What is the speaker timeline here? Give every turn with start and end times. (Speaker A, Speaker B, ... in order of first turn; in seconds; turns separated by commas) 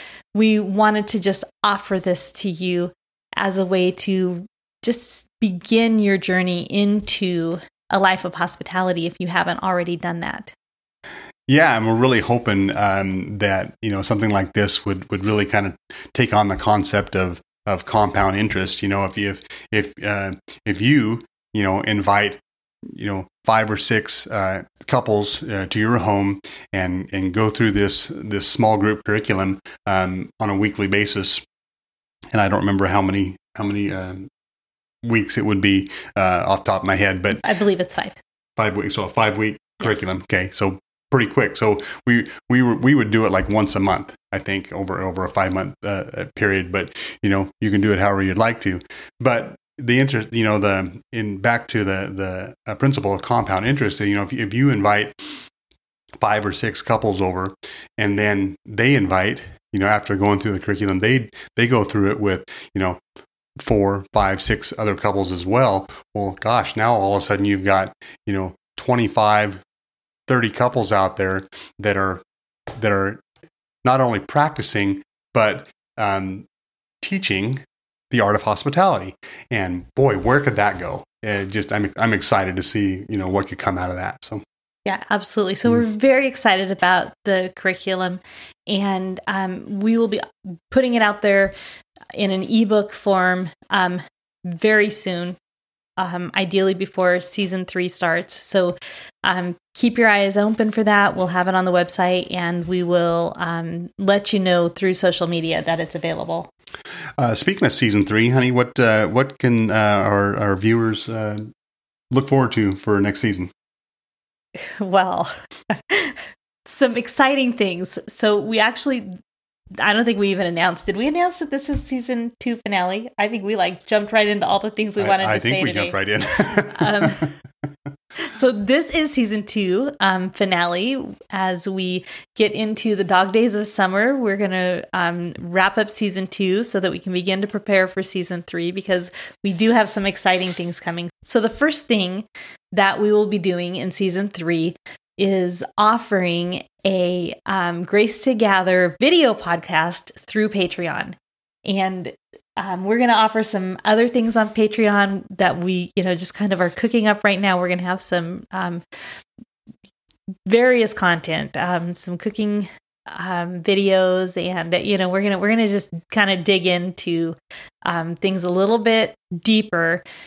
Speaker A: 0.3-10.5, Speaker B: 11.5-31.4, Speaker B: 32.3-34.3, Speaker B: 35.0-37.4, Speaker A: 37.4-38.2, Speaker B: 38.6-55.5, Speaker A: 39.8-40.1, Speaker B: 56.2-63.0, Speaker B: 63.6-69.6, Speaker B: 70.3-73.2, Speaker B: 73.8-76.5, Speaker B: 77.0-84.4, Speaker A: 84.9-91.5, Speaker A: 92.2-95.4, Speaker A: 96.0-106.5, Speaker B: 107.2-111.5, Speaker B: 112.1-113.5, Speaker A: 114.7-119.1, Speaker A: 119.8-127.3, Speaker B: 125.0-127.3, Speaker A: 128.2-158.8, Speaker A: 160.5-170.0